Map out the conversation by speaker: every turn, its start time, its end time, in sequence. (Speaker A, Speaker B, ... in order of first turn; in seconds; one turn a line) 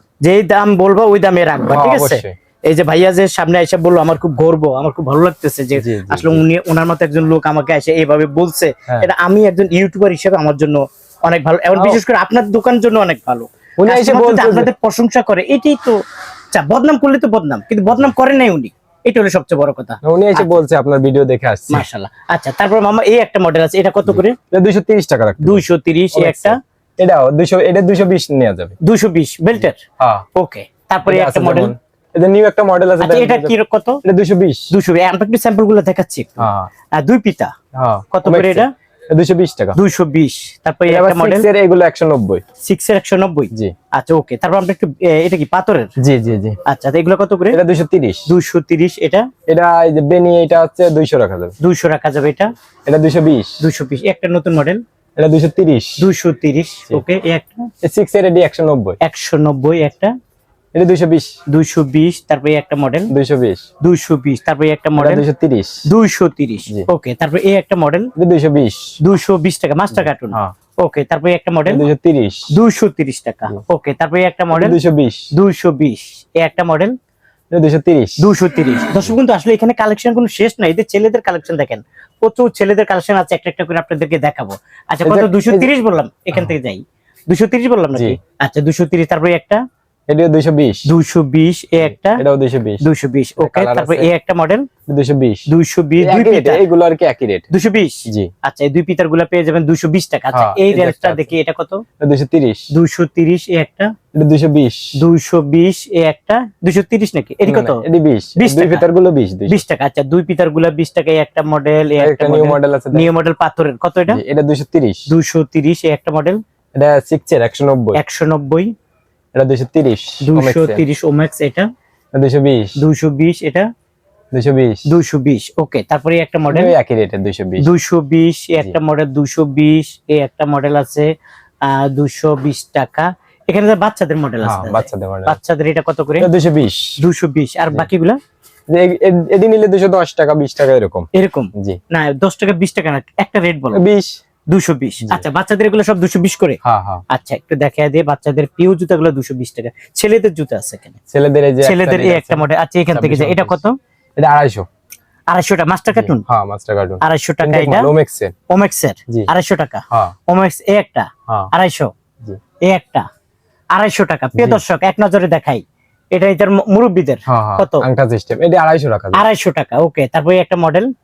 Speaker A: 0.2-16.0
Speaker B: 1.7-2.4
Speaker B: 5.8-6.4
Speaker B: 13.8-14.7
Speaker A: 16.5-20.5
Speaker B: 20.0-21.9
Speaker A: 21.7-24.4
Speaker B: 24.1-28.8
Speaker A: 25.4-26.6
Speaker A: 28.8-29.8
Speaker B: 30.0-30.2
Speaker A: 30.4-31.7
Speaker B: 31.1-33.5
Speaker A: 33.0-34.0
Speaker B: 34.0-34.7
Speaker A: 34.7-37.5
Speaker B: 36.4-36.7
Speaker B: 37.8-39.8
Speaker A: 38.1-38.7
Speaker A: 39.8-41.5
Speaker B: 40.9-42.4
Speaker A: 42.6-45.9
Speaker B: 46.0-46.6
Speaker A: 46.7-47.6
Speaker B: 47.5-48.3
Speaker A: 48.3-49.3
Speaker B: 49.5-51.5
Speaker A: 51.6-52.5
Speaker B: 52.9-53.6
Speaker A: 53.6-54.8
Speaker B: 55.2-56.0
Speaker A: 56.0-57.7
Speaker B: 57.8-59.0
Speaker A: 59.0-60.1
Speaker B: 60.7-61.3
Speaker A: 61.5-63.1
Speaker B: 63.1-63.6
Speaker A: 63.8-65.2
Speaker B: 65.0-65.9
Speaker A: 65.9-68.1
Speaker B: 68.2-69.0
Speaker A: 69.0-71.9
Speaker B: 71.7-72.5
Speaker A: 72.5-74.8
Speaker B: 74.5-75.3
Speaker A: 75.3-77.0
Speaker B: 77.5-78.3
Speaker A: 78.2-89.6
Speaker B: 85.0-85.7
Speaker B: 90.1-90.9
Speaker A: 90.9-92.2
Speaker B: 92.1-92.9
Speaker A: 92.8-94.7
Speaker B: 93.4-94.1
Speaker B: 94.9-95.5
Speaker A: 95.5-96.6
Speaker B: 96.0-97.5
Speaker A: 97.5-101.8
Speaker B: 100.3-101.3
Speaker B: 102.0-102.7
Speaker A: 102.7-103.9
Speaker B: 104.1-105.0
Speaker A: 105.0-107.8
Speaker B: 107.5-109.6
Speaker A: 108.4-108.8
Speaker A: 109.5-114.2
Speaker B: 112.0-113.1
Speaker B: 114.1-115.1
Speaker A: 115.1-116.4
Speaker B: 116.8-118.0
Speaker A: 118.0-118.7
Speaker B: 119.3-120.8
Speaker A: 120.2-121.7
Speaker B: 122.1-122.8
Speaker A: 122.8-123.7
Speaker B: 124.3-124.9
Speaker A: 124.9-126.7
Speaker B: 126.5-127.7
Speaker A: 127.6-131.1
Speaker A: 131.6-136.3
Speaker B: 134.4-135.4
Speaker B: 136.2-137.0
Speaker A: 137.0-138.2
Speaker B: 138.7-141.8
Speaker A: 141.1-143.8
Speaker B: 143.7-144.2
Speaker A: 144.5-150.9
Speaker B: 146.6-147.0
Speaker B: 151.1-153.6
Speaker A: 151.6-153.8
Speaker B: 154.2-154.7
Speaker A: 155.3-156.2
Speaker B: 155.9-158.3
Speaker A: 157.0-157.9
Speaker A: 158.5-161.9
Speaker A: 162.7-163.1
Speaker A: 163.7-167.9
Speaker B: 164.4-164.6
Speaker B: 167.3-169.2
Speaker A: 169.1-170.9